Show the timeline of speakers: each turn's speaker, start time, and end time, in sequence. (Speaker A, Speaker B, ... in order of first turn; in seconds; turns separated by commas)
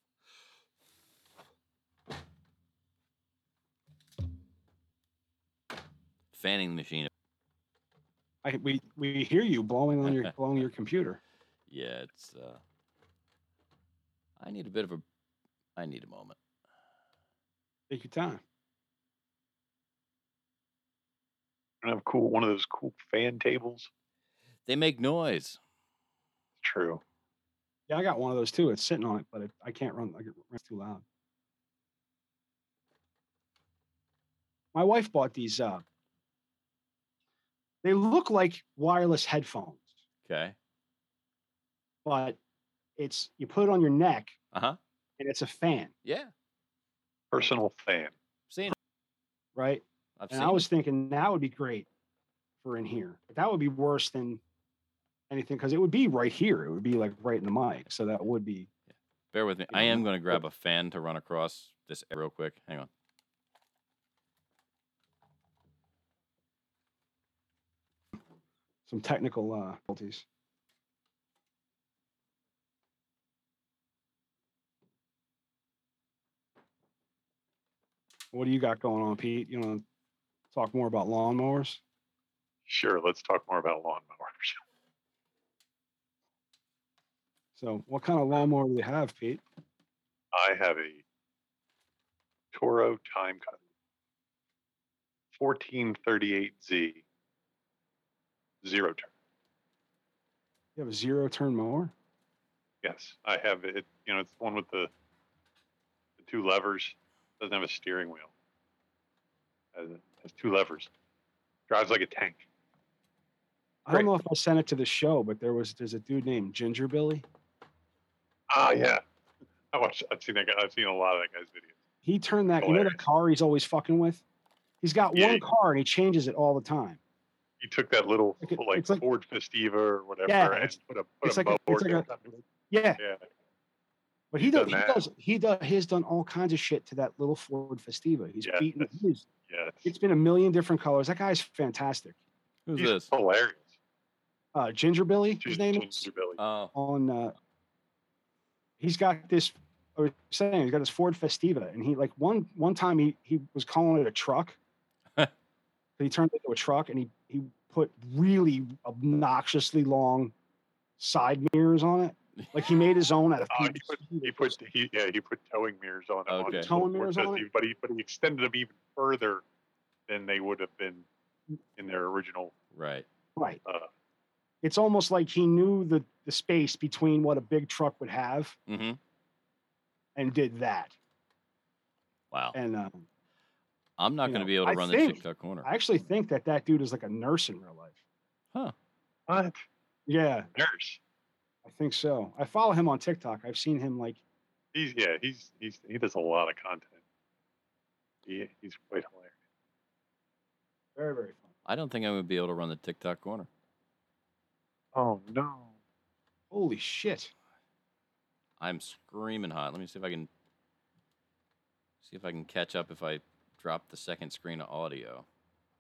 Speaker A: 6.3-7.1, Speaker B: 8.4-11.2, Speaker A: 10.0-10.3, Speaker A: 11.7-12.6, Speaker A: 14.4-15.1, Speaker A: 15.8-16.4, Speaker B: 17.9-18.4, Speaker C: 21.8-23.9, Speaker A: 24.7-25.6, Speaker C: 26.6-27.0, Speaker B: 27.9-31.0, Speaker B: 34.7-35.9, Speaker B: 37.8-40.0, Speaker A: 40.2-40.6, Speaker B: 42.0-42.4, Speaker B: 43.0-44.4, Speaker A: 44.5-44.8, Speaker B: 45.2-45.9, Speaker A: 46.0-46.3, Speaker C: 47.3-48.1, Speaker A: 48.5-48.7, Speaker B: 49.5-51.9, Speaker A: 50.2-50.6, Speaker B: 52.6-54.4, Speaker B: 55.3-58.7, Speaker A: 59.3-62.9, Speaker B: 59.7-60.4, Speaker B: 68.9-70.2, Speaker B: 78.3-79.8, Speaker B: 80.5-81.8, Speaker C: 82.7-84.6, Speaker B: 87.5-89.4, Speaker C: 90.3-91.0, Speaker C: 92.5-93.6, Speaker C: 95.3-97.0, Speaker C: 98.6-99.1, Speaker B: 100.8-101.9, Speaker C: 102.8-104.9, Speaker C: 106.2-108.3, Speaker C: 109.7-110.9, Speaker C: 111.7-112.4, Speaker B: 113.9-117.2, Speaker C: 118.5-119.0, Speaker C: 119.7-121.8, Speaker B: 122.0-124.2, Speaker C: 122.6-123.0, Speaker B: 124.8-127.0, Speaker C: 125.1-125.4, Speaker C: 127.6-132.4, Speaker B: 128.4-129.0, Speaker B: 130.3-132.1, Speaker B: 132.7-133.0, Speaker B: 134.3-139.2, Speaker C: 134.4-135.1, Speaker C: 138.4-138.9, Speaker C: 139.5-139.9, Speaker B: 139.8-142.2, Speaker A: 142.7-143.1, Speaker C: 142.8-143.8, Speaker B: 144.5-146.1, Speaker C: 145.4-146.4, Speaker A: 146.4-146.7, Speaker B: 146.7-147.3, Speaker B: 148.8-154.6, Speaker B: 156.0-160.3, Speaker B: 161.0-164.5, Speaker C: 163.5-169.4, Speaker A: 166.3-166.7, Speaker B: 166.5-167.4, Speaker C: 170.1-171.1, Speaker C: 171.8-172.5, Speaker A: 172.7-173.1, Speaker B: 174.6-178.6, Speaker A: 178.7-179.0, Speaker B: 180.2-181.0, Speaker A: 182.3-182.6, Speaker B: 182.5-183.1, Speaker A: 184.0-185.7, Speaker B: 184.2-188.0, Speaker C: 189.3-189.6, Speaker B: 190.1-190.5, Speaker C: 190.6-191.0, Speaker B: 191.6-194.2, Speaker C: 194.7-197.0, Speaker C: 198.2-199.3, Speaker B: 200.9-201.5, Speaker A: 201.6-203.5, Speaker C: 204.9-205.7, Speaker B: 206.5-207.3, Speaker A: 208.6-210.3, Speaker A: 212.0-215.2